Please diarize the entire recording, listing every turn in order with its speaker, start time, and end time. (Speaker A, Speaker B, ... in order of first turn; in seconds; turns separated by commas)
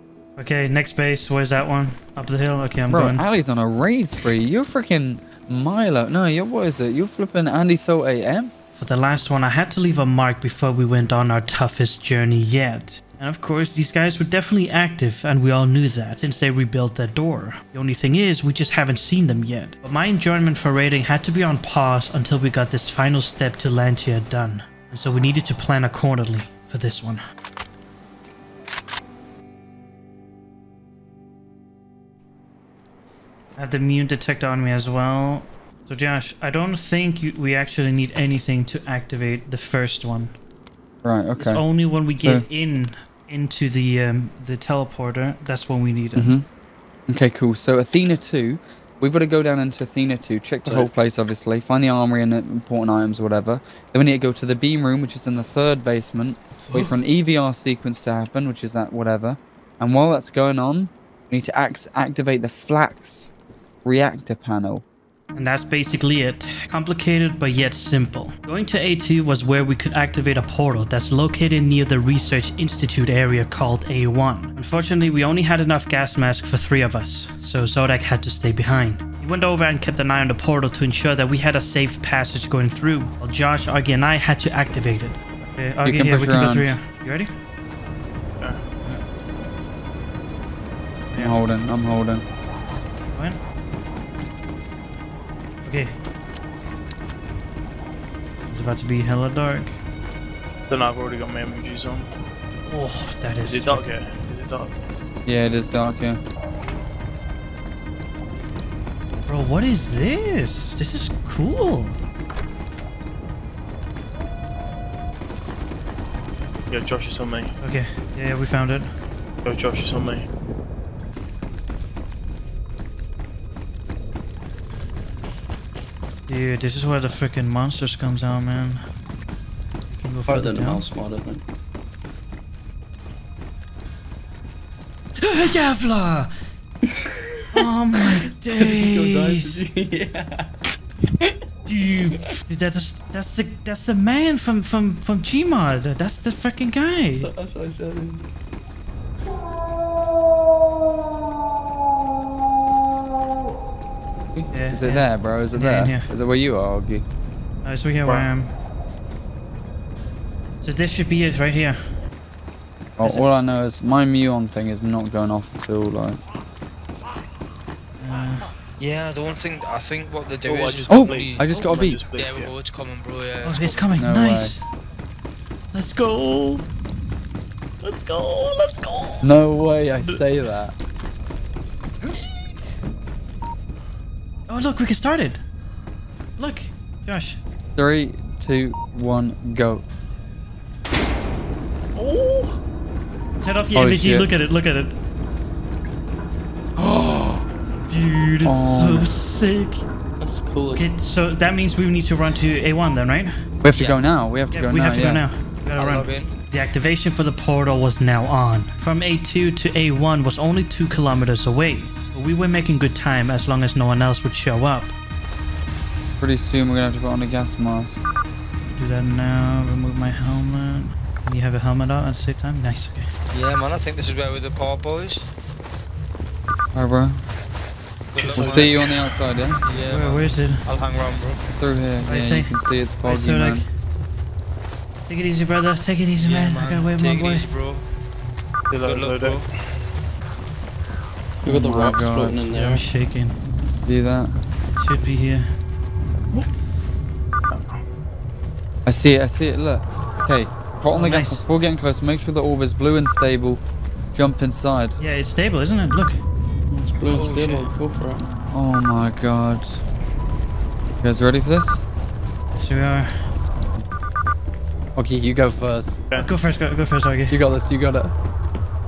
Speaker A: 0.4-3.2, Speaker B: 2.9-8.5, Speaker A: 8.8-27.2, Speaker A: 33.6-40.3, Speaker B: 41.0-42.4, Speaker A: 41.4-46.3, Speaker B: 46.1-46.5, Speaker B: 47.1-63.3, Speaker A: 56.6-56.9, Speaker B: 63.8-64.8, Speaker A: 65.3-87.3, Speaker B: 85.8-86.7, Speaker A: 91.1-91.4, Speaker B: 91.2-92.2, Speaker A: 93.1-93.4, Speaker A: 95.6-96.0, Speaker A: 98.5-99.8, Speaker C: 100.7-102.1, Speaker A: 102.7-103.8, Speaker C: 103.4-104.8, Speaker B: 105.2-106.2, Speaker A: 109.3-112.0, Speaker C: 116.7-117.5, Speaker A: 117.6-118.9, Speaker C: 119.4-120.3, Speaker A: 126.3-128.8, Speaker A: 129.9-130.8, Speaker D: 130.3-131.4, Speaker A: 135.2-136.3, Speaker D: 137.1-140.5, Speaker A: 137.5-139.6, Speaker A: 141.7-147.3, Speaker D: 147.2-148.3, Speaker B: 154.3-157.0, Speaker A: 154.5-156.1, Speaker A: 157.6-158.5, Speaker A: 160.6-161.8, Speaker B: 163.0-166.2, Speaker A: 163.0-163.3, Speaker A: 168.0-168.5, Speaker E: 168.8-173.8, Speaker C: 170.4-172.6, Speaker B: 170.9-172.0, Speaker A: 173.4-174.6, Speaker B: 174.0-174.6, Speaker A: 175.7-176.6, Speaker A: 177.8-179.3, Speaker B: 179.2-180.7, Speaker A: 184.5-185.4, Speaker A: 186.4-187.4, Speaker B: 187.8-189.8, Speaker A: 191.9-192.6, Speaker A: 193.4-194.9, Speaker B: 193.7-194.3, Speaker B: 196.8-197.4, Speaker A: 197.9-199.8, Speaker B: 198.4-199.1, Speaker D: 200.2-200.9, Speaker A: 200.8-203.9, Speaker B: 203.6-205.2, Speaker A: 204.5-214.9, Speaker E: 205.8-206.3, Speaker B: 216.2-218.0, Speaker A: 218.7-223.1, Speaker E: 223.3-225.3, Speaker B: 226.7-227.2, Speaker E: 228.1-231.4, Speaker A: 228.2-228.7, Speaker B: 228.3-229.6, Speaker A: 229.8-230.6, Speaker B: 231.5-233.6, Speaker A: 232.0-233.6, Speaker A: 235.1-237.5, Speaker E: 236.2-237.9, Speaker C: 238.7-239.6, Speaker E: 238.8-239.4, Speaker D: 241.4-242.8, Speaker B: 241.4-242.4, Speaker A: 242.5-243.4, Speaker B: 243.7-244.4, Speaker A: 244.7-245.5, Speaker C: 247.5-247.8, Speaker B: 248.8-253.6, Speaker A: 250.9-251.4, Speaker B: 254.1-255.0, Speaker A: 255.0-256.2, Speaker D: 256.7-258.3, Speaker E: 257.0-257.7, Speaker B: 258.5-259.8, Speaker B: 261.0-261.9, Speaker A: 262.6-263.2, Speaker B: 264.9-266.0, Speaker A: 266.1-267.4, Speaker B: 267.3-268.1